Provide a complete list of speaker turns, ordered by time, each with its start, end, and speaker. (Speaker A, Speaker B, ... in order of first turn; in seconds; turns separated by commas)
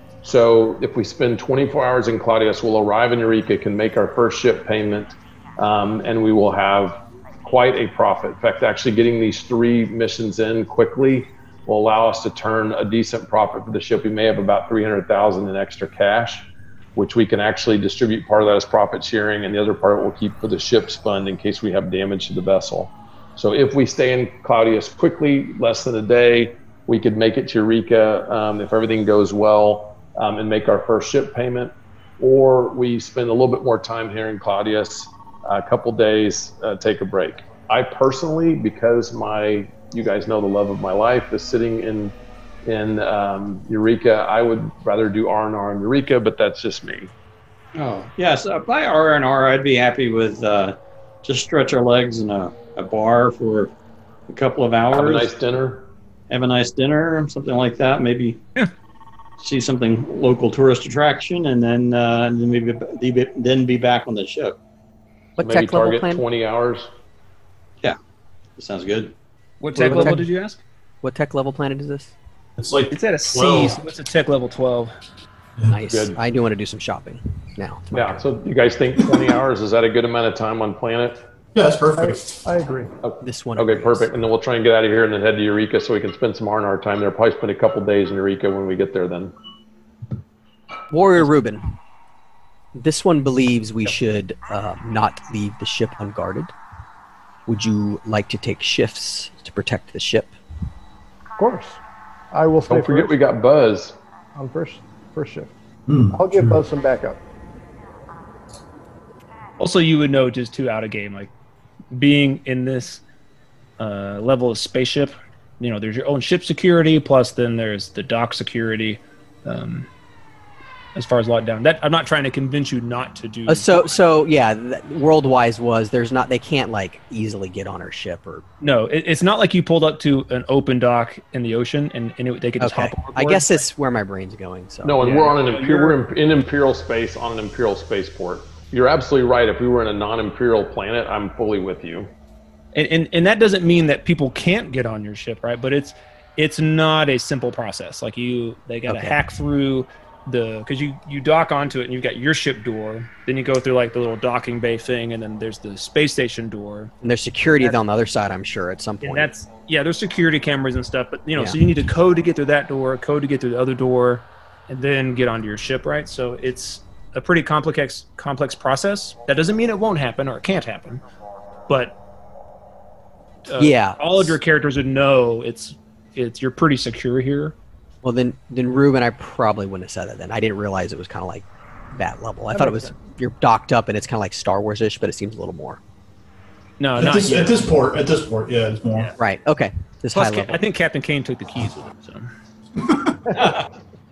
Speaker A: 0.2-42.1, Speaker A: 42.7-47.1, Speaker B: 47.8-53.7, Speaker B: 54.3-55.3, Speaker A: 54.9-55.9, Speaker B: 56.3-58.4, Speaker B: 59.4-64.6, Speaker C: 65.4-66.2, Speaker A: 65.4-66.9, Speaker B: 68.6-69.1, Speaker D: 69.6-70.6, Speaker C: 69.8-70.2, Speaker C: 71.0-72.1, Speaker E: 72.6-73.8, Speaker D: 72.9-74.9, Speaker C: 75.7-78.2, Speaker A: 75.9-76.2, Speaker A: 77.9-81.2, Speaker E: 81.5-82.4, Speaker F: 82.0-82.9, Speaker A: 83.0-89.3, Speaker C: 83.2-84.1, Speaker C: 90.9-91.7, Speaker C: 92.8-96.5, Speaker C: 97.5-100.3, Speaker F: 101.4-101.8, Speaker F: 102.3-103.2, Speaker A: 102.7-104.0, Speaker F: 104.3-105.5, Speaker E: 105.9-106.6, Speaker F: 106.1-107.2, Speaker D: 109.6-111.3, Speaker D: 111.9-113.0, Speaker D: 113.8-119.9, Speaker D: 121.0-124.0, Speaker C: 123.5-128.4, Speaker D: 128.6-133.6, Speaker C: 132.6-135.0, Speaker A: 134.8-142.1, Speaker D: 135.0-135.9, Speaker D: 142.8-156.9, Speaker C: 148.9-149.2, Speaker C: 157.0-159.3, Speaker D: 159.0-171.0, Speaker D: 171.7-172.0, Speaker D: 173.5-177.6, Speaker C: 173.6-174.3, Speaker C: 178.0-181.4, Speaker C: 182.0-185.8, Speaker D: 182.6-182.9, Speaker D: 186.8-187.7, Speaker E: 187.0-189.1, Speaker C: 189.2-190.6, Speaker D: 190.1-192.3, Speaker E: 192.8-193.4, Speaker B: 193.4-193.7